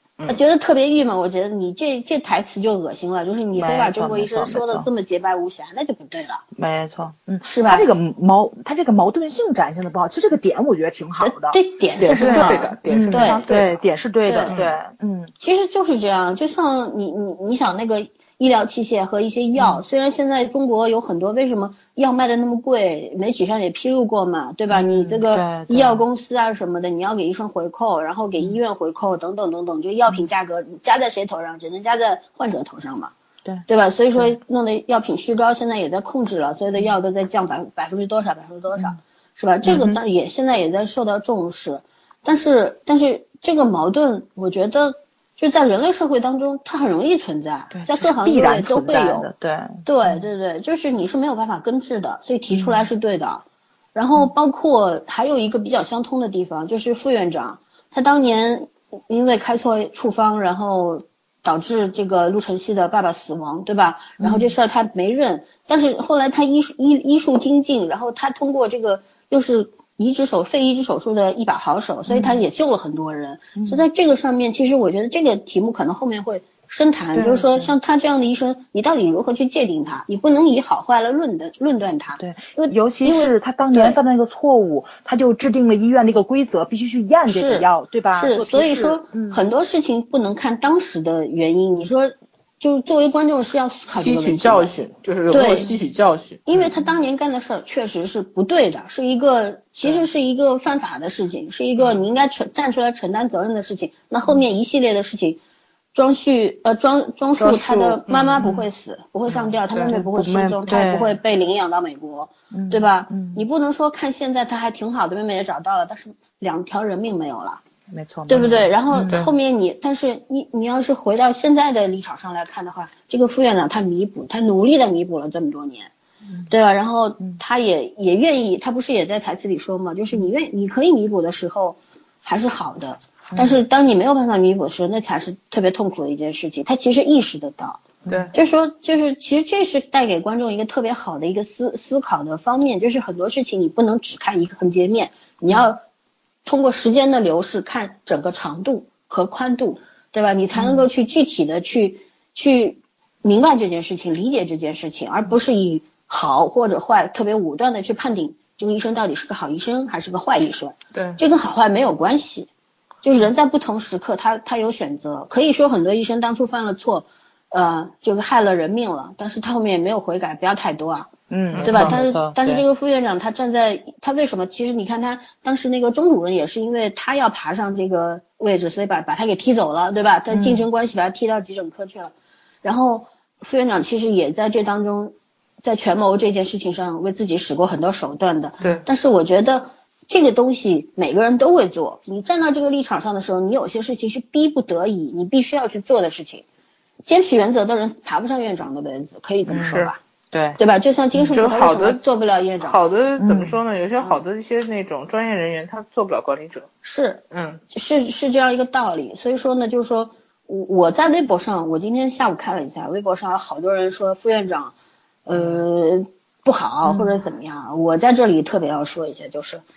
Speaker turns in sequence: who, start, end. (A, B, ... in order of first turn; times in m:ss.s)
0:00.3-0:06.4 A
0:03.5-0:04.9 B
0:06.6-0:11.6 B
0:07.4-0:07.9 A
0:11.2-0:13.4 A
0:12.0-0:13.8 C
0:12.2-0:15.3 B
0:14.2-0:14.6 A
0:14.5-0:14.8 C
0:15.4-0:33.1 A
0:19.6-0:19.8 B
0:24.7-0:26.0 B
0:33.6-0:49.3 A
0:39.6-0:40.0 B
0:47.7-0:50.2 B
0:49.8-0:53.4 A
0:52.5-0:52.9 B
0:53.9-1:24.0 A
1:04.2-1:04.5 B
1:12.1-1:12.4 B
1:13.6-1:13.8 B
1:17.1-1:17.7 B
1:22.2-1:29.4 B
1:27.3-1:34.7 A
1:33.8-1:36.5 C
1:35.3-1:35.7 A
1:36.4-1:45.4 A
1:45.9-1:57.6 A
1:47.4-1:48.5 C
1:49.9-1:51.2 B
1:52.5-1:53.4 B
1:57.9-1:59.2 B
1:58.3-2:05.9 A
1:58.3-1:59.3 C
2:06.5-2:17.8 A
2:13.3-2:13.6 B
2:18.3-2:25.8 A
2:26.4-2:42.5 A
2:30.5-2:30.8 B
2:40.9-2:41.2 C
2:43.0-2:51.1 A
2:51.3-2:52.6 B
2:51.5-2:52.0 C
2:51.6-3:16.4 A
3:00.3-3:00.6 B
3:17.0-3:20.0 A
3:19.5-3:19.8 B
3:20.3-3:20.6 B
3:20.6-3:22.8 A
3:21.3-3:22.0 C
3:22.6-3:26.7 C
3:23.2-3:23.6 B
3:26.8-3:34.7 A
3:27.3-3:27.6 C
3:35.2-3:39.6 A
3:36.8-3:37.2 B